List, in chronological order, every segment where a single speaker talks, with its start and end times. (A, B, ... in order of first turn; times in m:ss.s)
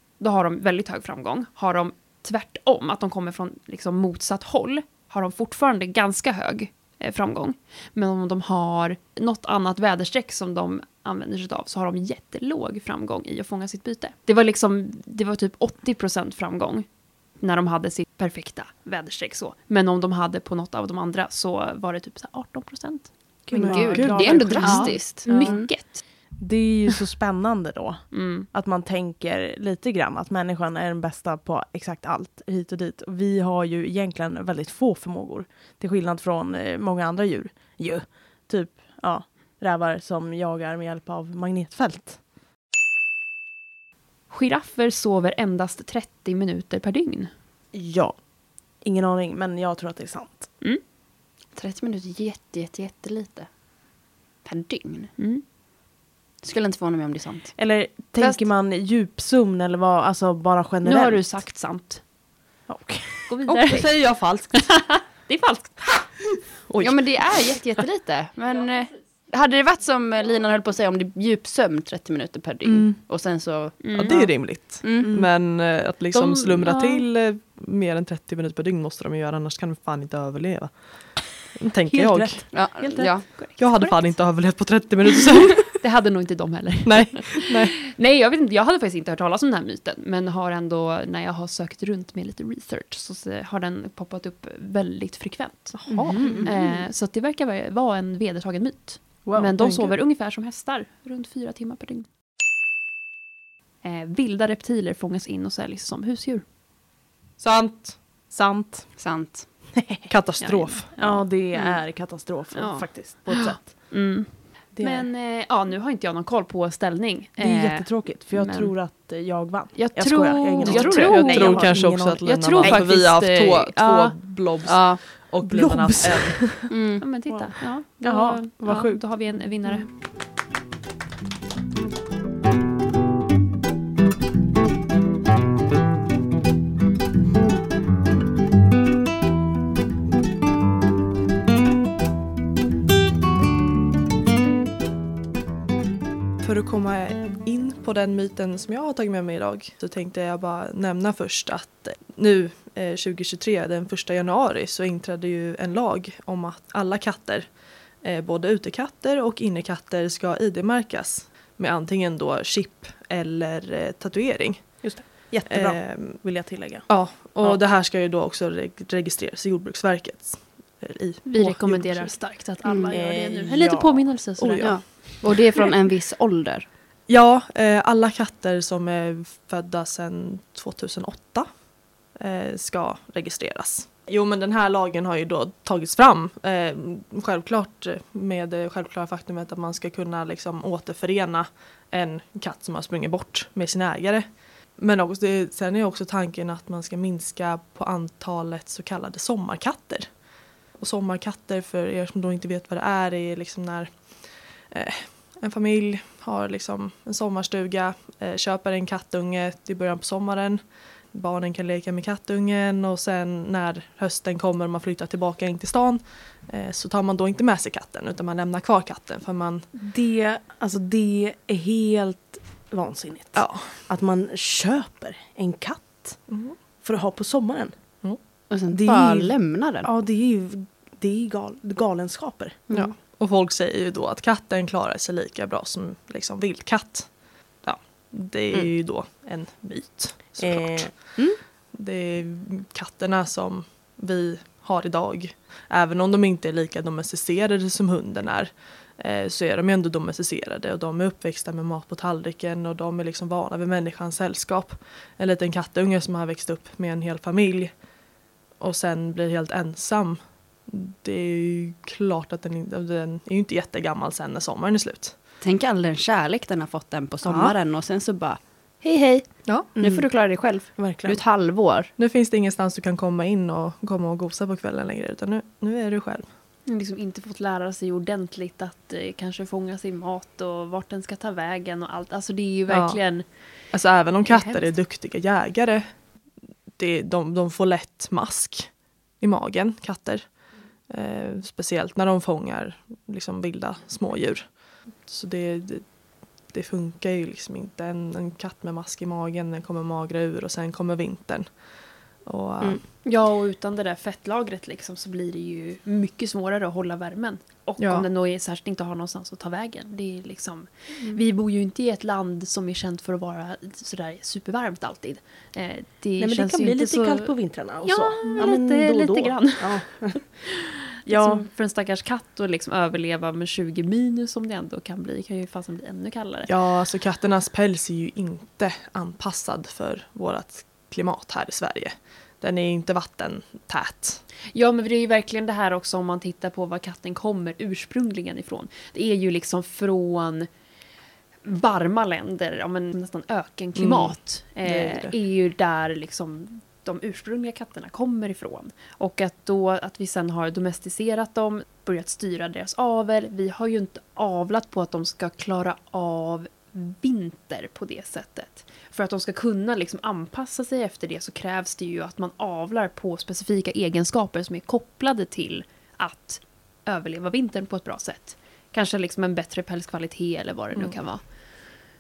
0:00.2-0:26.3 A
0:23.5-0:42.2 B
0:23.7-0:25.7 C
0:23.7-0:24.6 D
0:28.1-0:28.5 A
0:44.3-0:47.3 A
0:47.7-0:48.2 B
0:48.8-0:50.5 B
0:51.5-0:53.5 C
0:54.4-0:55.1 C
0:55.2-0:55.4 A
0:56.4-0:58.5 C
0:57.6-1:01.4 B
1:00.8-1:02.0 A
1:02.7-1:03.6 B
1:03.3-1:06.3 A
1:03.5-1:04.8 D
1:06.6-1:07.5 D
1:06.8-1:15.1 C
1:12.6-1:13.0 B
1:13.8-1:14.2 A
1:13.9-1:22.5 D
1:15.0-1:16.6 B
1:16.6-1:17.0 A
1:21.9-1:23.9 B
1:22.5-1:23.6 C
1:23.6-1:25.8 D
1:25.8-1:42.1 A
1:26.8-1:27.8 D
1:35.7-1:36.3 D
1:35.9-1:36.8 B
1:36.2-1:36.5 C
1:39.2-1:40.0 B
1:43.8-1:46.4 A
1:47.4-1:48.0 D
1:48.3-1:49.0 B
1:49.0-1:49.5 C
1:49.8-1:50.1 B
1:50.1-1:50.9 D
1:50.4-1:51.3 A
1:51.0-1:54.0 B
1:51.5-1:51.8 C
1:52.5-1:58.7 A
1:54.7-1:55.1 B
1:57.4-2:02.9 B
1:59.8-2:04.2 A
2:00.6-2:06.5 D
2:00.8-2:01.2 C
2:04.6-2:05.0 C
2:05.4-2:06.7 B
2:06.7-2:07.0 C
2:07.0-2:09.9 A
2:07.3-2:09.8 B
2:26.4-2:52.2 D
2:44.8-2:47.6 B
2:51.3-2:55.2 A
2:52.6-2:52.9 C
2:52.9-2:54.8 B
2:54.5-2:56.7 C
2:57.1-3:39.7 D
3:39.7-3:52.7 B
3:43.4-3:43.9 D
3:46.3-3:46.6 D
3:48.5-3:49.9 C
3:52.7-3:52.9 C
3:52.7-4:17.9 D
4:00.4-4:01.4 B
4:18.6-4:25.2 D
4:25.4-4:31.9 C
4:27.2-4:27.6 B
4:29.8-4:31.2 B
4:32.0-4:36.3 D
4:36.7-4:44.8 A
4:42.7-5:02.8 D
5:03.0-5:26.6 A
5:07.8-5:08.1 D
5:11.0-5:11.2 B
5:16.2-5:21.5 B
5:26.5-5:34.2 D
5:34.5-5:40.5 A
5:41.4-6:11.3 A
5:43.8-5:45.2 D